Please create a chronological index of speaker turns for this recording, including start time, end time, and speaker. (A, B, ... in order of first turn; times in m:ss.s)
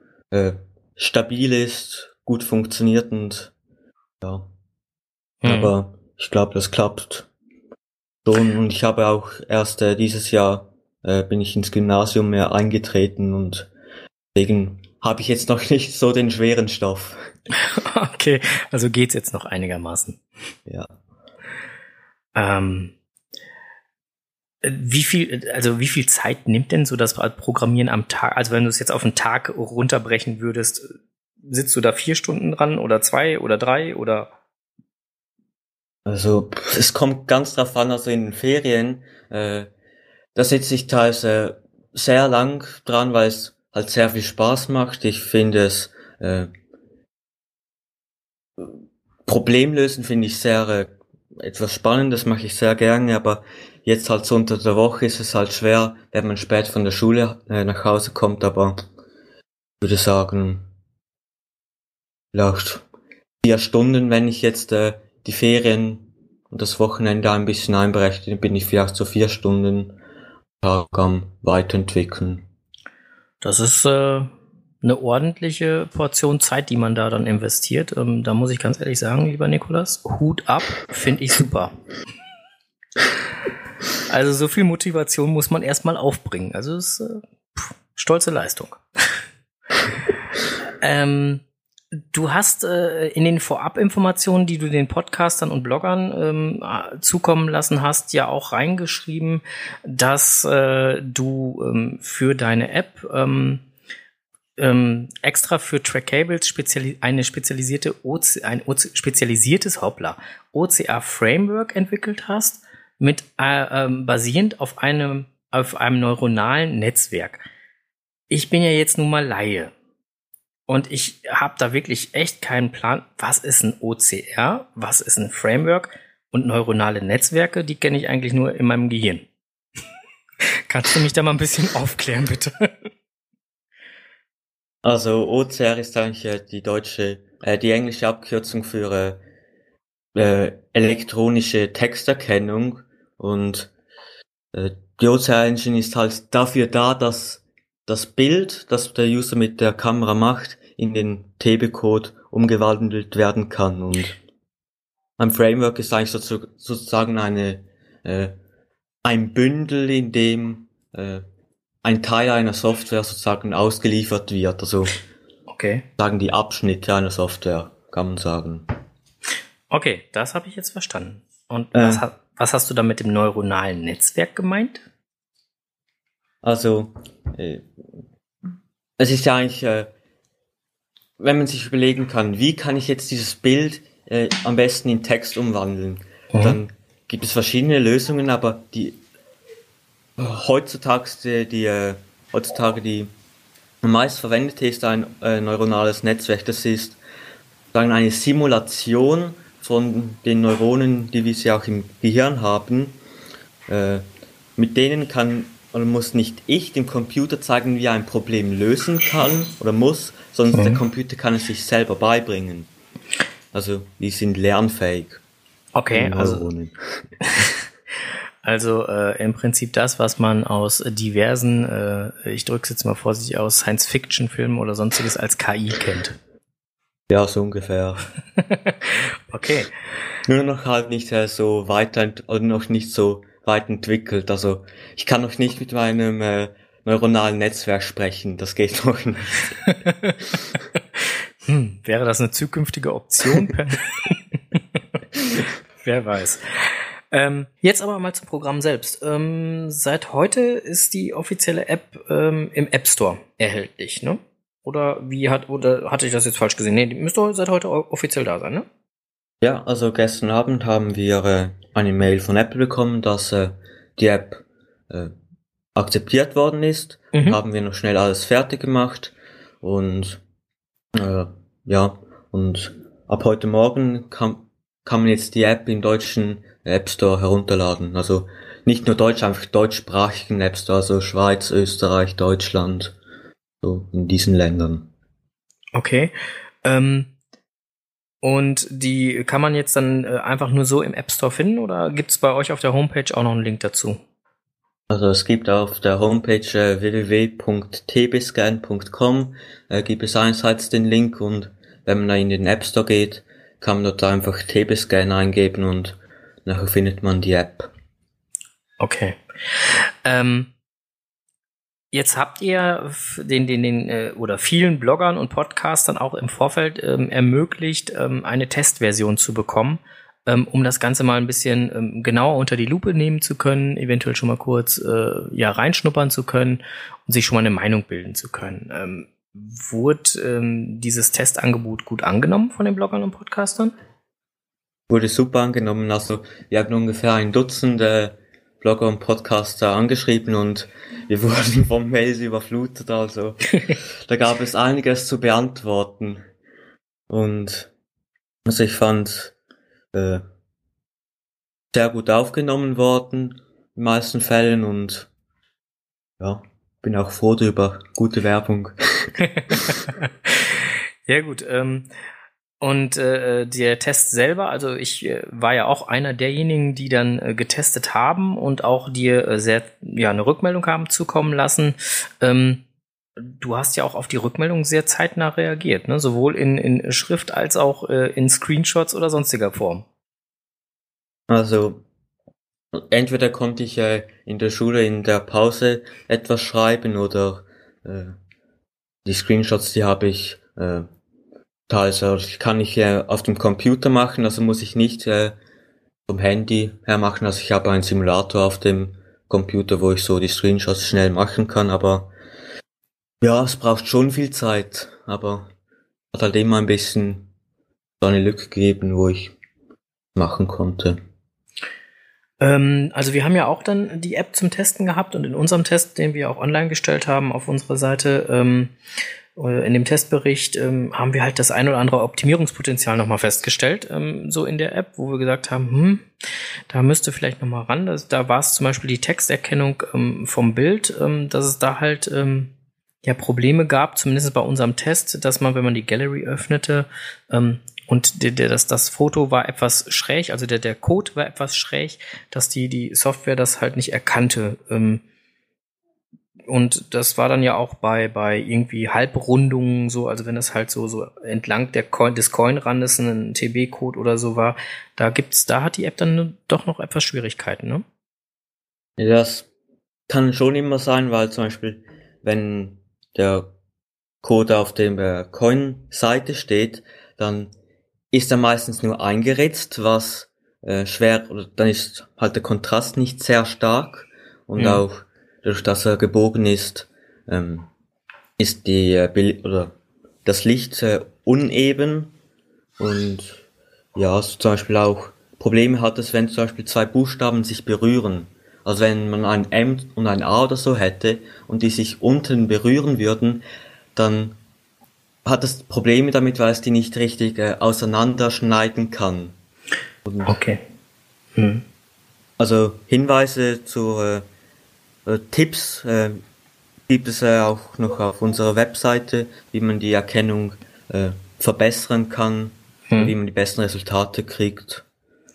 0:00.3-0:03.5 A
0:04.2-0:04.5 A
0:05.4-0:05.8 B
0:05.4-0:07.3 A
0:08.2-0:13.7 A
0:14.3-0:17.2 A
0:17.5-0:20.2 B
0:22.3-0:22.9 B
0:24.6-0:30.9 B
0:31.4-0:34.3 B
0:36.0-0:39.7 A
0:40.3-0:46.5 A
0:48.6-0:58.8 A
0:59.8-1:00.7 A
1:02.3-1:02.8 A
1:03.4-1:10.0 A
1:10.6-1:12.5 A
1:13.4-1:14.3 B
1:14.8-1:21.7 B
1:24.1-1:28.8 B
1:30.8-1:31.4 B
1:32.0-1:43.6 B
1:44.6-1:57.4 B
1:58.3-1:59.7 B
2:00.7-2:09.3 B
2:10.7-2:12.7 B
2:14.8-2:19.2 A
2:20.2-2:23.7 A
2:24.5-2:34.2 A
2:35.2-2:38.3 A
2:39.0-2:41.2 A
2:41.8-2:45.0 A
2:45.5-2:45.8 B
2:46.0-2:48.7 A
2:49.7-2:54.8 B
2:51.7-2:52.0 A
2:56.4-2:57.7 A
2:59.0-2:59.9 A
3:01.2-3:09.0 A
3:06.3-3:06.6 B
3:10.2-3:13.1 A
3:13.8-3:17.0 A
3:17.7-3:23.0 A
3:23.7-3:24.0 A
3:24.6-3:32.7 A
3:30.5-3:30.8 B
3:33.5-3:35.2 A
3:35.7-3:36.5 B
3:35.9-3:36.7 A
3:37.2-3:37.5 B
3:38.4-3:46.2 B
3:47.1-3:48.0 A
3:48.4-3:49.7 B
3:50.2-3:59.5 A
3:59.6-4:00.3 B
4:01.0-4:04.6 B
4:05.8-4:18.6 B
4:19.4-4:25.1 A
4:25.8-4:30.2 A
4:27.1-4:27.4 B
4:30.9-4:43.0 A
4:43.6-4:44.9 A
4:45.7-4:46.1 B
4:46.6-4:47.1 B
4:48.2-4:54.0 B
4:54.9-5:07.7 A
5:08.8-5:10.5 B
5:11.9-5:33.8 B
5:34.9-5:46.2 A
5:47.1-5:47.7 A
5:48.4-5:49.3 A
5:49.9-5:50.2 A
5:51.7-5:55.1 A
5:56.2-5:59.5 A
5:59.2-6:01.9 B
6:02.6-6:12.6 B
6:13.2-6:19.9 B
6:21.3-6:21.8 A
6:22.7-6:28.2 A
6:29.0-6:30.9 A
6:31.7-6:35.4 A
6:36.1-6:42.1 A
6:43.2-6:45.5 A
6:46.1-6:47.3 A
6:48.0-6:49.3 A
6:50.1-6:51.0 A
6:52.4-6:58.7 B
6:59.4-7:06.1 B
7:06.7-7:25.0 B
7:26.5-7:37.8 B
7:39.0-7:39.5 A
7:40.1-7:43.5 A
7:44.2-7:47.5 A
7:48.1-7:57.7 A
7:54.6-7:54.8 B
7:58.4-7:59.7 A
8:00.2-8:02.1 A
8:02.8-8:03.4 A
8:03.9-8:13.4 A
8:13.9-8:14.4 A
8:15.2-8:19.4 A
8:20.0-8:20.4 A
8:20.2-8:20.6 B
8:21.4-8:21.6 B
8:22.4-8:24.2 A
8:25.0-8:26.2 A
8:26.9-8:34.8 A
8:32.9-8:33.1 B